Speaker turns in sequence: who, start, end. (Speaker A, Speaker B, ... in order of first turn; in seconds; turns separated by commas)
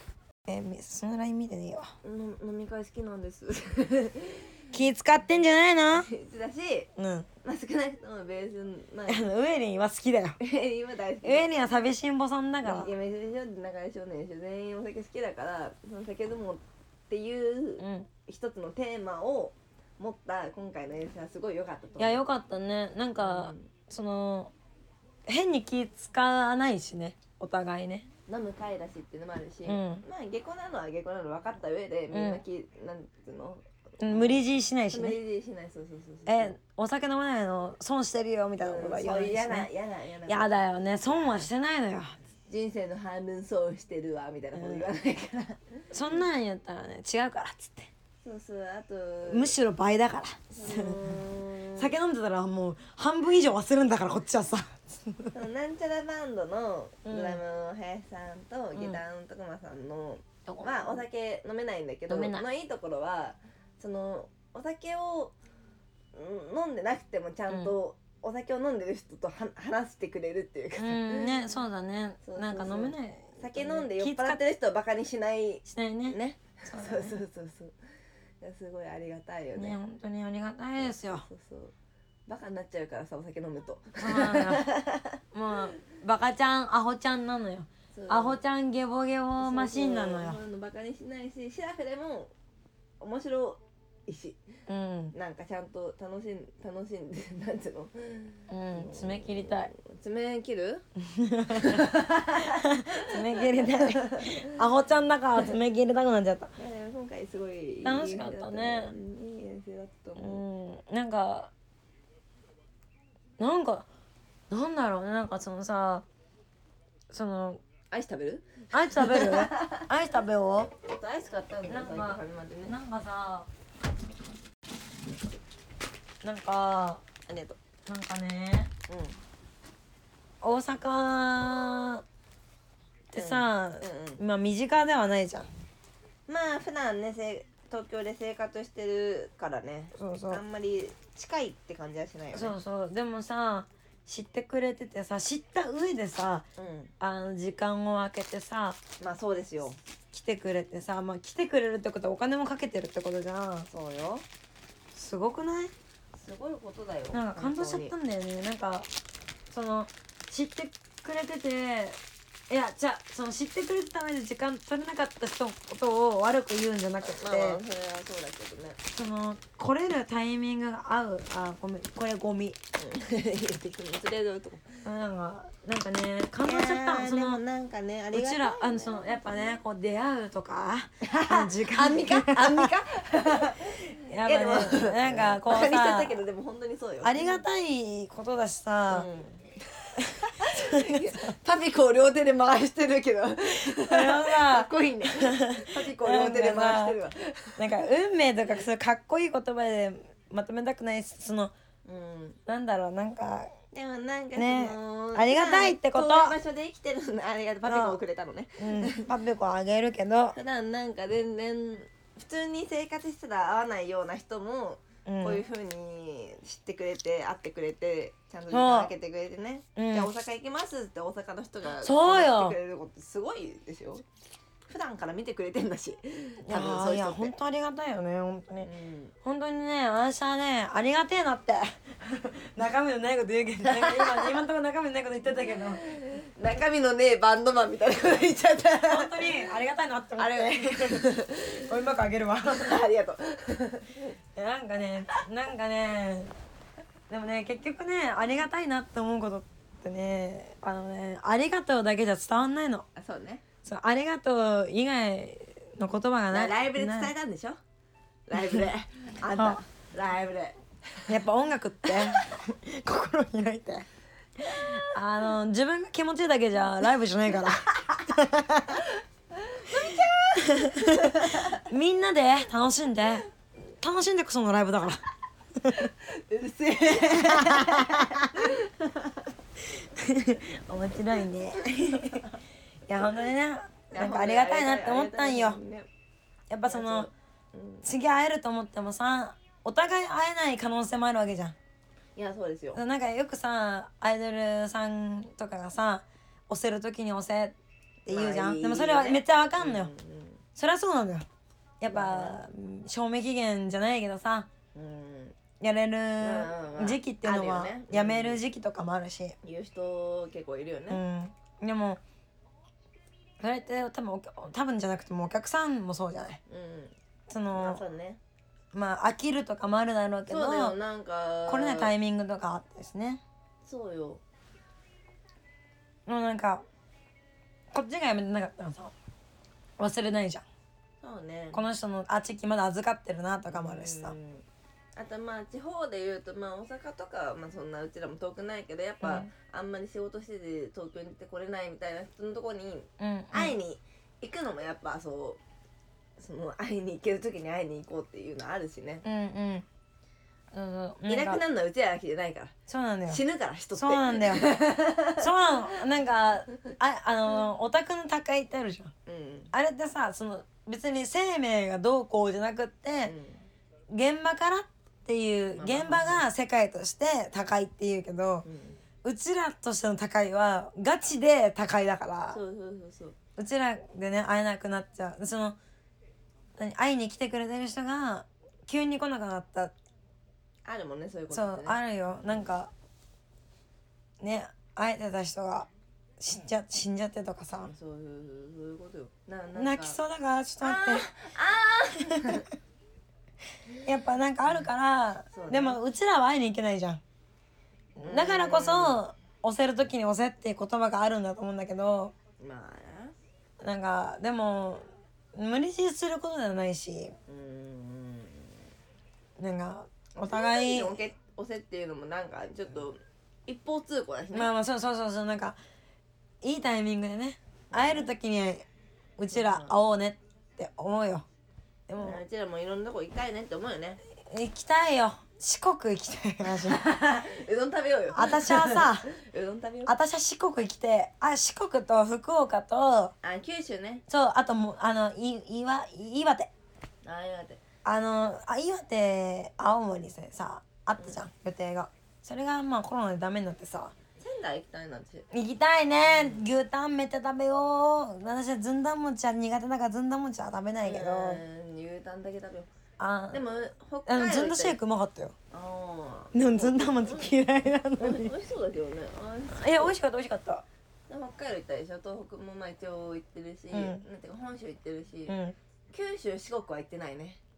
Speaker A: 0.5-1.9, Speaker B: 2.0-4.6, Speaker A: 4.7-6.1, Speaker B: 5.9-6.9, Speaker A: 7.0-7.3, Speaker B: 7.4-9.2, Speaker A: 9.1-10.4, Speaker B: 10.4-11.5, Speaker A: 11.2-12.9, Speaker B: 12.6-22.2, Speaker A: 17.8-18.1, Speaker A: 22.0-24.5, Speaker B: 23.2-23.7, Speaker A: 25.3-28.1, Speaker B: 28.3-36.5, Speaker A: 29.6-30.0, Speaker A: 32.1-32.4, Speaker A: 34.0-35.2, Speaker A: 36.2-39.7, Speaker B: 38.6-40.6, Speaker A: 40.3-42.2, Speaker B: 42.5-45.8, Speaker A: 44.5-44.9, Speaker A: 45.9-47.9, Speaker B: 48.2-49.5, Speaker A: 49.3-51.2, Speaker B: 50.5-51.9, Speaker A: 51.8-55.4, Speaker B: 55.3-65.3, Speaker A: 57.0-57.4, Speaker A: 58.7-59.0, Speaker A: 60.5-61.0, Speaker A: 62.1-62.5, Speaker B: 66.1-71.4, Speaker A: 67.5-67.7, Speaker A: 70.8-74.4, Speaker B: 72.2-77.7, Speaker A: 75.7-77.2, Speaker B: 78.4-79.8, Speaker A: 79.5-81.2, Speaker B: 80.8-81.7, Speaker B: 82.3-85.2, Speaker A: 84.0-84.7, Speaker A: 85.3-90.4, Speaker B: 87.9-88.4, Speaker B: 89.4-92.3, Speaker B: 93.0-94.4, Speaker A: 94.7-95.1, Speaker B: 95.1-100.8, Speaker A: 98.5-99.7, Speaker A: 101.0-106.5, Speaker B: 101.5-104.5, Speaker B: 106.5-110.4, Speaker A: 107.8-108.9, Speaker A: 110.2-111.5, Speaker A: 113.4-113.9, Speaker A: 114.5-116.0, Speaker A: 117.1-117.6, Speaker B: 117.9-119.9, Speaker A: 118.7-120.7, Speaker B: 120.8-122.8, Speaker A: 121.6-123.5, Speaker A: 126.2-127.0, Speaker B: 127.3-127.6, Speaker A: 127.8-128.7, Speaker B: 128.9-129.2, Speaker A: 130.4-132.0, Speaker A: 133.1-135.5, Speaker B: 133.1-134.2, Speaker B: 136.3-142.5, Speaker A: 139.9-140.4, Speaker A: 142.3-146.4, Speaker B: 146.6-146.9, Speaker A: 147.0-148.8, Speaker B: 149.0-149.8, Speaker A: 150.1-153.7, Speaker B: 153.7-154.2, Speaker A: 154.9-155.7, Speaker B: 156.2-157.9, Speaker A: 157.1-158.9, Speaker A: 159.5-167.6, Speaker B: 167.0-168.8, Speaker A: 168.9-172.6, Speaker B: 172.8-174.8, Speaker A: 174.8-177.4, Speaker B: 176.4-179.6, Speaker A: 178.1-182.7, Speaker B: 181.0-187.4, Speaker A: 183.9-186.2, Speaker A: 187.0-189.1, Speaker B: 188.9-189.5, Speaker A: 190.0-191.3, Speaker B: 190.2-197.8, Speaker A: 193.8-197.0, Speaker A: 197.6-201.5, Speaker B: 201.8-202.4, Speaker A: 202.5-203.5, Speaker B: 203.7-209.1, Speaker A: 204.3-206.3, Speaker A: 207.6-208.0, Speaker A: 208.6-210.3, Speaker B: 210.3-224.0, Speaker A: 215.1-215.4, Speaker A: 218.5-218.9, Speaker A: 219.8-220.1, Speaker A: 221.7-222.6, Speaker B: 224.7-227.3, Speaker A: 226.4-228.7, Speaker B: 228.6-229.1, Speaker A: 229.2-235.8, Speaker B: 233.6-234.4, Speaker B: 235.5-239.4, Speaker A: 238.9-242.8, Speaker B: 240.2-241.7, Speaker B: 242.5-244.1, Speaker A: 244.3-246.3, Speaker A: 247.1-252.8, Speaker B: 252.9-253.4, Speaker A: 253.6-257.1, Speaker B: 256.3-257.6, Speaker B: 258.3-261.1, Speaker A: 258.4-258.6, Speaker A: 259.3-259.6, Speaker A: 261.1-263.9, Speaker B: 261.8-262.3, Speaker A: 264.4-268.9, Speaker B: 264.5-264.9, Speaker B: 267.7-268.0, Speaker B: 268.7-271.6, Speaker A: 269.8-273.3, Speaker A: 273.8-275.0, Speaker A: 275.6-275.9, Speaker B: 275.7-279.3, Speaker A: 276.9-278.5, Speaker A: 279.6-282.3, Speaker B: 281.9-282.3, Speaker A: 282.9-285.6, Speaker B: 283.9-285.9, Speaker A: 286.5-287.1, Speaker B: 286.6-287.9, Speaker A: 287.8-291.6, Speaker B: 292.1-292.8, Speaker A: 292.7-297.5, Speaker B: 298.1-300.4, Speaker A: 298.1-299.9, Speaker A: 300.6-301.2, Speaker A: 301.8-304.5, Speaker B: 301.9-302.4, Speaker B: 304.7-305.4, Speaker A: 305.6-309.4, Speaker B: 306.2-308.4, Speaker B: 309.4-311.0, Speaker A: 310.9-312.0, Speaker A: 313.4-316.4, Speaker B: 316.5-316.9, Speaker A: 317.3-317.8, Speaker B: 317.5-318.2, Speaker A: 318.7-320.8, Speaker B: 320.3-321.9, Speaker A: 321.5-323.2, Speaker B: 323.6-324.2, Speaker A: 326.1-326.6, Speaker A: 327.7-328.9, Speaker A: 329.8-330.4, Speaker B: 331.0-331.6, Speaker A: 331.5-334.1, Speaker B: 333.5-334.4, Speaker B: 334.9-345.4, Speaker A: 339.0-339.3, Speaker A: 343.0-343.6, Speaker B: 346.2-349.0, Speaker A: 349.0-349.6, Speaker A: 350.5-351.4, Speaker B: 351.1-352.5, Speaker A: 352.7-353.2, Speaker B: 353.1-355.3, Speaker A: 353.7-354.6, Speaker A: 355.2-358.9, Speaker B: 359.1-359.5, Speaker A: 359.5-363.1, Speaker B: 363.1-363.4, Speaker A: 363.9-368.4, Speaker B: 365.5-366.2, Speaker B: 368.4-368.8, Speaker A: 369.0-372.4, Speaker B: 372.3-373.1, Speaker A: 373.4-375.6, Speaker A: 376.6-379.7, Speaker B: 380.6-381.8, Speaker A: 381.3-382.7, Speaker A: 384.2-385.7, Speaker A: 386.2-387.7, Speaker B: 387.6-390.0, Speaker A: 389.6-391.1, Speaker B: 390.6-392.5, Speaker A: 392.0-392.4, Speaker A: 393.8-397.0, Speaker B: 395.3-395.8, Speaker A: 398.0-402.1, Speaker B: 398.0-399.0, Speaker B: 402.4-403.1, Speaker A: 403.6-407.1, Speaker B: 407.3-408.5, Speaker A: 409.4-411.0, Speaker B: 410.2-414.5, Speaker A: 414.3-415.6, Speaker A: 416.4-418.6, Speaker B: 417.7-418.1, Speaker A: 419.2-421.2, Speaker B: 419.3-419.7, Speaker A: 421.9-422.2, Speaker B: 422.0-424.0, Speaker A: 424.2-426.8, Speaker B: 426.6-429.9, Speaker A: 428.1-429.1, Speaker A: 429.9-433.1, Speaker B: 433.2-434.0, Speaker A: 434.1-436.5, Speaker B: 437.0-437.6, Speaker A: 437.8-443.9, Speaker B: 444.2-445.3, Speaker A: 445.3-451.4, Speaker B: 446.0-446.4, Speaker B: 450.8-452.7, Speaker A: 453.0-453.4, Speaker B: 453.3-454.8, Speaker A: 454.1-455.3, Speaker B: 455.5-457.4, Speaker A: 456.3-458.3, Speaker B: 458.0-459.9, Speaker A: 459.5-460.6, Speaker B: 461.1-465.4, Speaker A: 463.7-464.0, Speaker A: 465.3-465.6, Speaker B: 465.9-467.4